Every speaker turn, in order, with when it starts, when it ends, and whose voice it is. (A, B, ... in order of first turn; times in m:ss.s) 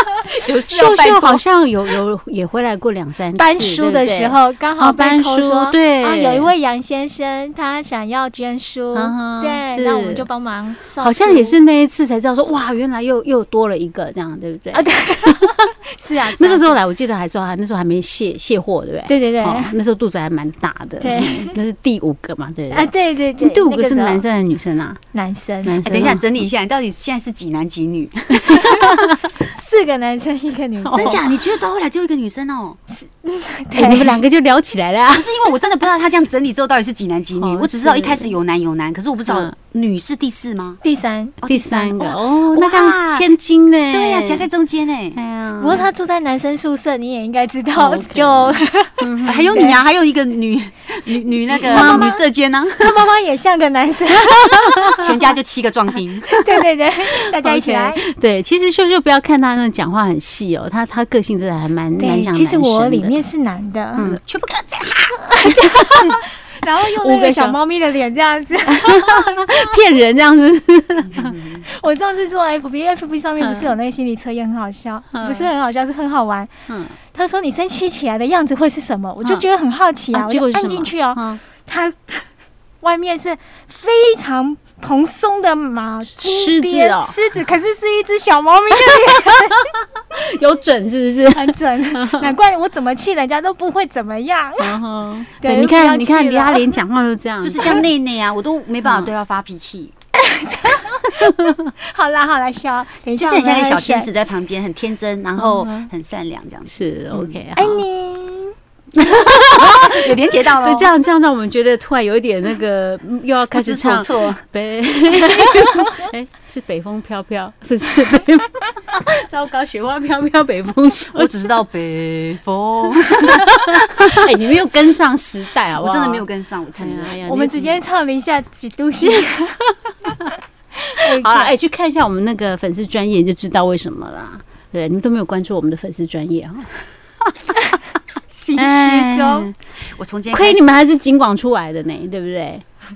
0:00.3-0:01.4 A
0:00.6-0:06.5 B
0:03.4-0:11.6 C
0:08.9-0:10.2 B
0:11.0-0:15.4 B
0:14.7-0:16.8 C
0:16.2-0:25.0 B
0:19.1-0:19.7 C
0:21.0-0:21.5 C
0:22.7-0:24.2 C
0:25.1-0:25.8 C
0:25.6-0:26.2 B
0:25.8-0:28.4 A
0:28.4-0:29.2 B
0:29.4-0:31.2 C
0:30.8-0:31.3 B
0:30.9-0:32.8 A
0:32.9-0:34.2 C
0:33.7-0:35.3 B
0:35.1-0:40.8 A
0:37.4-0:38.3 B
0:39.3-0:39.5 B
0:40.8-0:41.3 C
0:41.4-0:43.3 A
0:41.4-0:44.5 B
0:43.9-0:45.2 A
0:45.1-0:45.8 B
0:45.6-0:49.8 C
0:47.7-0:49.7 B
0:49.2-0:53.0 A
0:51.6-0:52.2 C
0:51.6-0:52.2 B
0:52.8-0:55.0 C
0:54.3-0:54.8 B
0:55.0-0:56.4 A
0:56.4-0:58.0 C
0:57.1-1:03.1 B
1:02.0-1:04.0 C
1:04.0-1:05.2 A
1:05.3-1:09.6 C
1:05.5-1:06.1 B
1:06.9-1:07.6 B
1:08.7-1:11.3 B
1:11.1-1:11.6 A
1:11.6-1:16.5 C
1:13.4-1:13.7 B
1:15.1-1:15.5 B
1:16.7-1:17.0 B
1:17.1-1:22.2 C
1:20.1-1:21.4 B
1:22.8-1:29.6 C
1:26.2-1:27.1 B
1:28.9-1:29.3 B
1:30.1-1:32.3 B
1:31.3-1:34.7 C
1:34.6-1:37.8 B
1:35.4-1:36.7 C
1:37.4-1:39.9 A
1:38.8-1:39.1 B
1:40.2-1:41.3 C
1:41.3-1:41.7 B
1:41.8-1:44.1 C
1:43.2-1:47.4 A
1:45.4-1:45.9 B
1:46.7-1:47.8 B
1:47.6-1:48.5 C
1:49.0-2:01.4 B
1:49.4-1:50.9 A
1:53.5-1:54.4 A
2:01.1-2:04.2 A
2:03.0-2:06.2 B
2:05.8-2:07.2 A
2:06.8-2:07.8 B
2:07.2-2:09.6 C
2:10.9-2:11.6 C
2:11.0-2:16.7 B
2:18.3-2:19.5 C
2:18.5-2:19.5 B
2:19.9-2:20.7 A
2:20.3-2:22.6 B